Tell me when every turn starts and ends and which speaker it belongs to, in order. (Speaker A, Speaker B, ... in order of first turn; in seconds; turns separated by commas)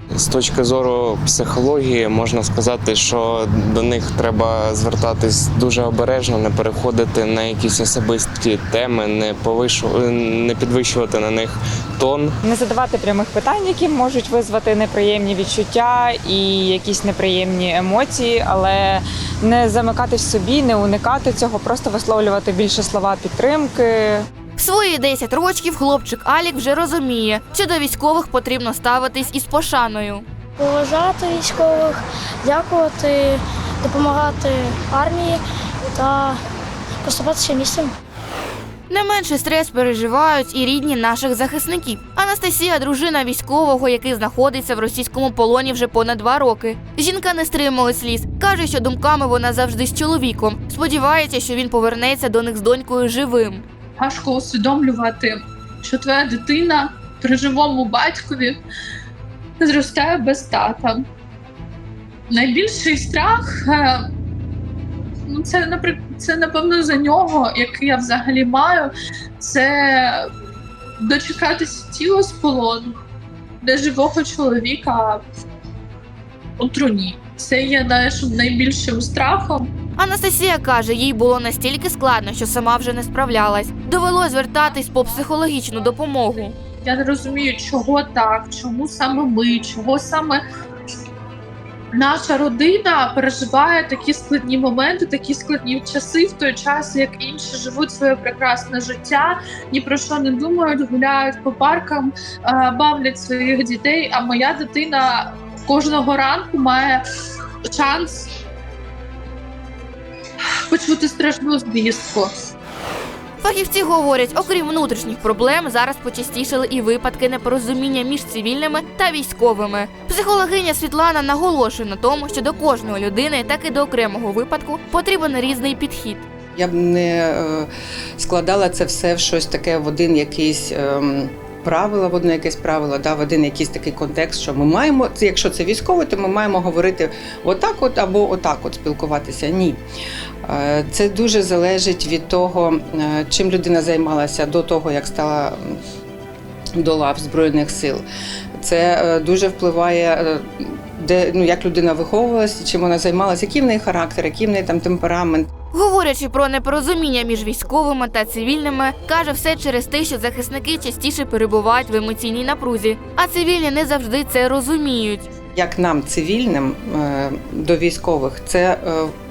Speaker A: 0.1-12.4, Speaker B: 12.4-24.2, Speaker C: 24.6-30.2, Speaker D: 30.6-35.4, Speaker D: 35.9-36.4, Speaker D: 37.0-37.9, Speaker C: 38.9-53.6, Speaker E: 54.0-58.6, Speaker E: 59.6-61.0, Speaker E: 62.3-64.0, Speaker E: 65.3-70.3, Speaker E: 71.0-72.9, Speaker E: 73.6-75.2, Speaker E: 76.6-79.7, Speaker C: 80.0-86.5, Speaker E: 86.8-90.4, Speaker E: 91.9-107.0, Speaker E: 107.7-108.3, Speaker E: 110.7-112.3, Speaker C: 113.4-126.2, Speaker F: 126.5-139.8, Speaker F: 140.4-145.8, Speaker F: 146.8-148.0, Speaker F: 148.6-155.5, Speaker C: 155.7-165.3, Speaker F: 165.6-169.1